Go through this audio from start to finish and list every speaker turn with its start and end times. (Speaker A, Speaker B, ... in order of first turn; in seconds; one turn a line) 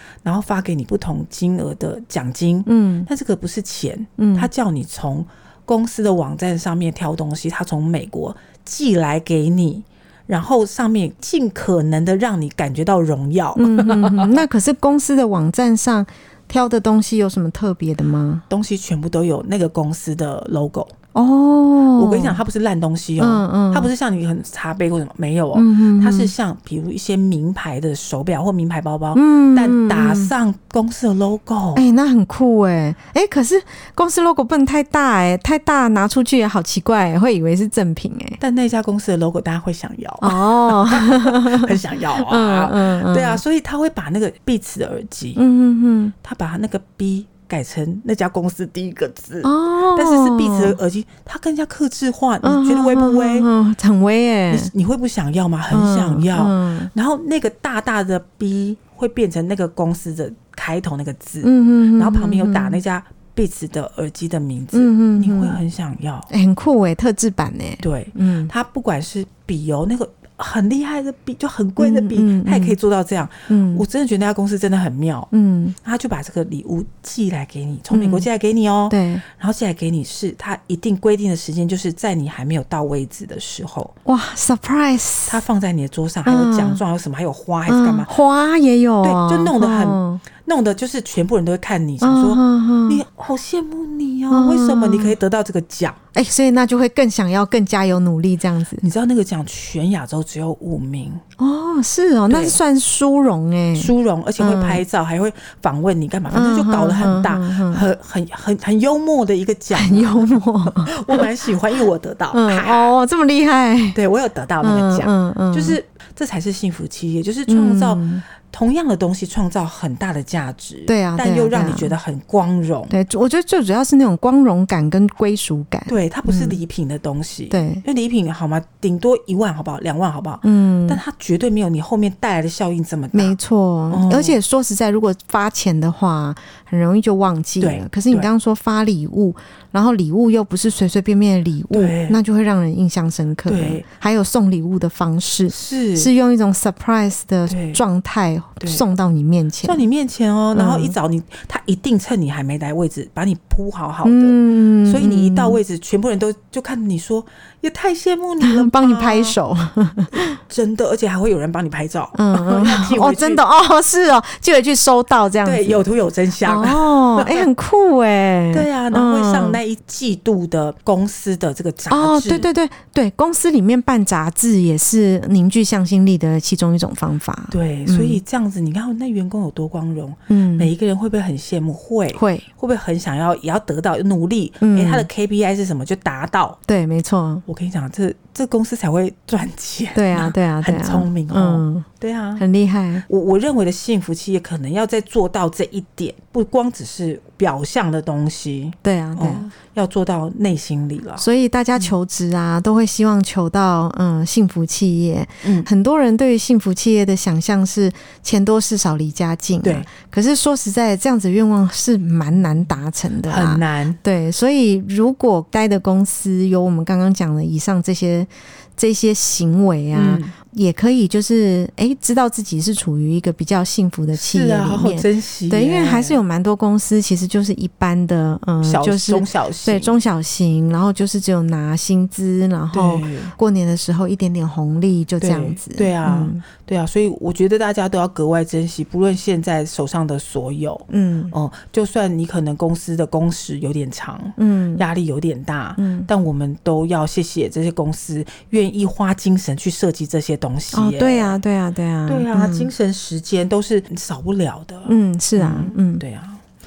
Speaker A: 0.2-14.4
Speaker B: 2.6-3.1
Speaker B: 4.2-4.5
Speaker B: 13.6-18.4
Speaker A: 18.5-20.9
Speaker B: 21.1-22.4
Speaker A: 22.0-31.9
Speaker B: 23.2-23.9
Speaker B: 25.5-26.3
Speaker B: 29.1-30.3
Speaker B: 31.8-38.4
Speaker A: 38.4-45.4
Speaker B: 40.2-43.4
Speaker B: 45.4-46.1
Speaker A: 46.2-53.5
Speaker B: 49.4-50.8
Speaker B: 52.4-54.7
Speaker A: 54.5-66.3
Speaker B: 55.7-56.9
Speaker B: 61.4-62.8
Speaker B: 64.7-65.6
Speaker B: 66.3-68.5
Speaker A: 67.8-75.3
Speaker B: 71.8-72.8
Speaker B: 73.5-73.8
Speaker B: 75.3-75.7
Speaker A: 75.8-83.9
Speaker B: 77.9-78.3
Speaker B: 78.9-79.2
Speaker B: 84.0-85.4
Speaker A: 85.3-88.1
Speaker B: 86.2-86.8
Speaker B: 87.7-90.2
Speaker A: 89.0-96.0
Speaker B: 92.0-93.0
Speaker B: 94.3-95.2
Speaker B: 96.1-98.8
Speaker A: 98.8-101.2
Speaker B: 101.4-104.8
Speaker A: 102.3-102.6
Speaker A: 103.8-112.9
Speaker B: 106.3-107.8
Speaker B: 109.7-111.3
Speaker B: 112.3-114.0
Speaker A: 113.9-122.9
Speaker B: 114.6-115.8
Speaker B: 117.5-118.2
Speaker B: 120.9-121.9
Speaker B: 122.9-126.5
Speaker A: 125.9-133.3
Speaker B: 127.5-127.8
Speaker B: 130.4-131.0
Speaker B: 133.1-149.8
Speaker A: 133.9-134.4
Speaker A: 137.6-138.3
Speaker A: 141.7-142.2
Speaker A: 143.5-143.8
Speaker A: 145.5-146.1
Speaker A: 147.5-147.8
Speaker A: 149.6-159.3
Speaker B: 150.5-150.9
Speaker B: 154.0-155.6
Speaker B: 158.4-160.4
Speaker A: 160.4-163.4
Speaker B: 162.1-165.8
Speaker A: 165.4-167.4
Speaker B: 166.4-169.6
Speaker A: 168.5-172.5
Speaker B: 171.9-178.2
Speaker A: 177.5-186.6
Speaker B: 180.3-180.7
Speaker B: 182.1-182.5
Speaker B: 184.6-185.1
Speaker B: 186.7-187.4
Speaker A: 187.4-192.4
Speaker B: 189.9-193.0
Speaker A: 193.1-201.2
Speaker B: 198.8-199.5
Speaker B: 201.2-236.4
Speaker A: 205.4-205.7
Speaker A: 209.6-209.9
Speaker A: 213.2-214.0
Speaker A: 219.9-220.3
Speaker A: 224.1-226.2
Speaker A: 228.6-229.9
Speaker A: 232.7-233.3
Speaker A: 235.2-251.4
Speaker B: 240.9-241.3
Speaker B: 244.4-244.8
Speaker B: 245.8-246.1
Speaker B: 250.7-252.7
Speaker A: 252.1-256.4
Speaker B: 254.9-256.0